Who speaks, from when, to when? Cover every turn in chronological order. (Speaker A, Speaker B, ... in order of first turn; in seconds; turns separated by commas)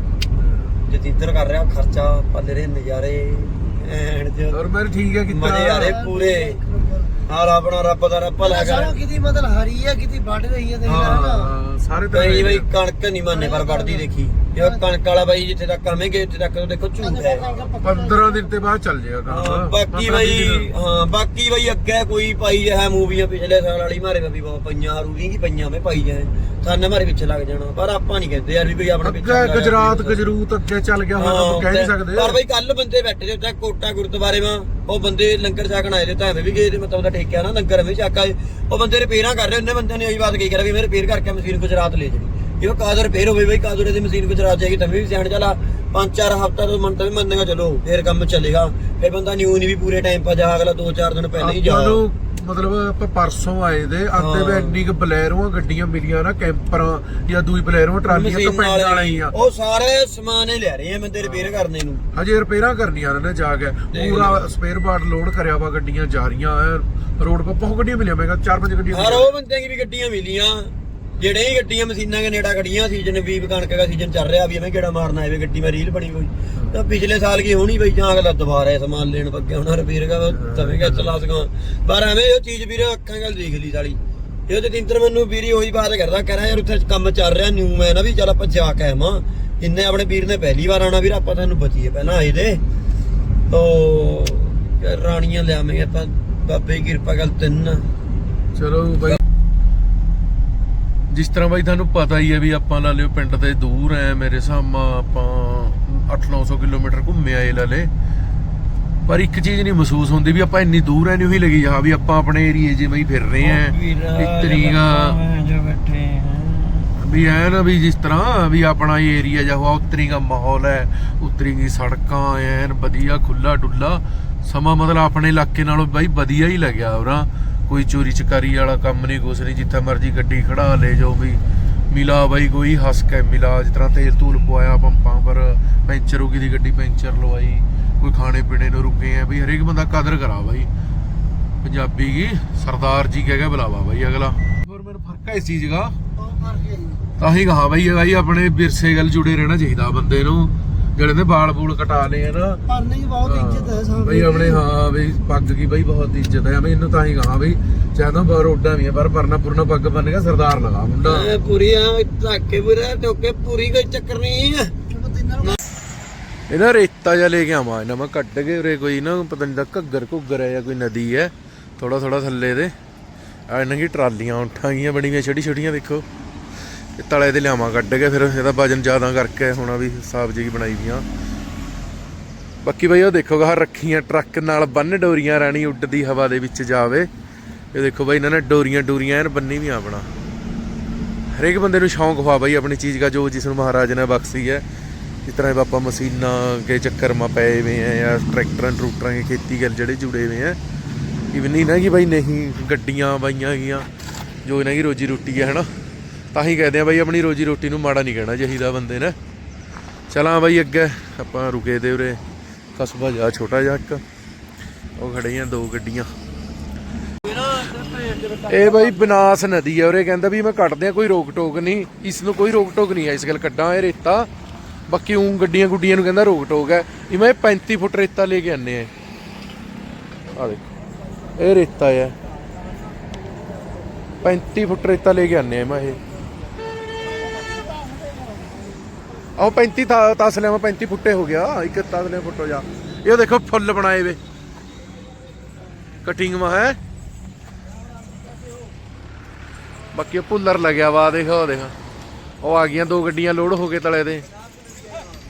Speaker A: 0.8-4.6, Speaker B: 4.5-6.0, Speaker A: 5.3-6.6, Speaker C: 5.8-7.1, Speaker A: 7.2-9.0, Speaker C: 8.5-11.5, Speaker A: 10.8-11.2, Speaker B: 11.1-12.7, Speaker A: 12.1-17.7, Speaker C: 17.3-18.3, Speaker B: 17.8-20.7, Speaker A: 19.3-30.2, Speaker B: 29.0-32.4, Speaker A: 31.2-52.0, Speaker B: 51.4-59.3, Speaker A: 54.1-54.8, Speaker A: 58.1-62.0, Speaker B: 61.2-69.4, Speaker A: 63.9-64.5, Speaker A: 68.9-92.6, Speaker B: 80.3-81.2, Speaker A: 93.5-97.9, Speaker B: 98.5-99.2, Speaker B: 101.1-107.9, Speaker B: 109.0-115.2, Speaker A: 113.4-117.0, Speaker B: 117.0-140.7, Speaker B: 141.6-145.9, Speaker C: 146.3-147.0, Speaker B: 147.2-152.6, Speaker C: 152.7-154.5, Speaker B: 153.2-161.3, Speaker A: 161.1-164.8, Speaker C: 165.1-165.4, Speaker B: 166.5-172.7, Speaker B: 173.5-176.0, Speaker B: 177.0-181.0, Speaker B: 182.6-187.1, Speaker B: 187.7-190.1, Speaker B: 191.3-194.6, Speaker B: 195.2-200.6, Speaker B: 201.3-203.9, Speaker B: 204.4-205.7, Speaker B: 206.3-209.2, Speaker B: 210.1-212.2, Speaker B: 212.8-214.0, Speaker B: 215.0-216.1, Speaker A: 217.2-219.3, Speaker B: 218.5-224.3, Speaker B: 224.9-228.9, Speaker B: 230.3-230.7, Speaker B: 231.3-232.1, Speaker B: 234.2-236.0, Speaker B: 239.4-244.2, Speaker B: 246.0-246.8, Speaker B: 249.9-251.7, Speaker B: 252.4-254.2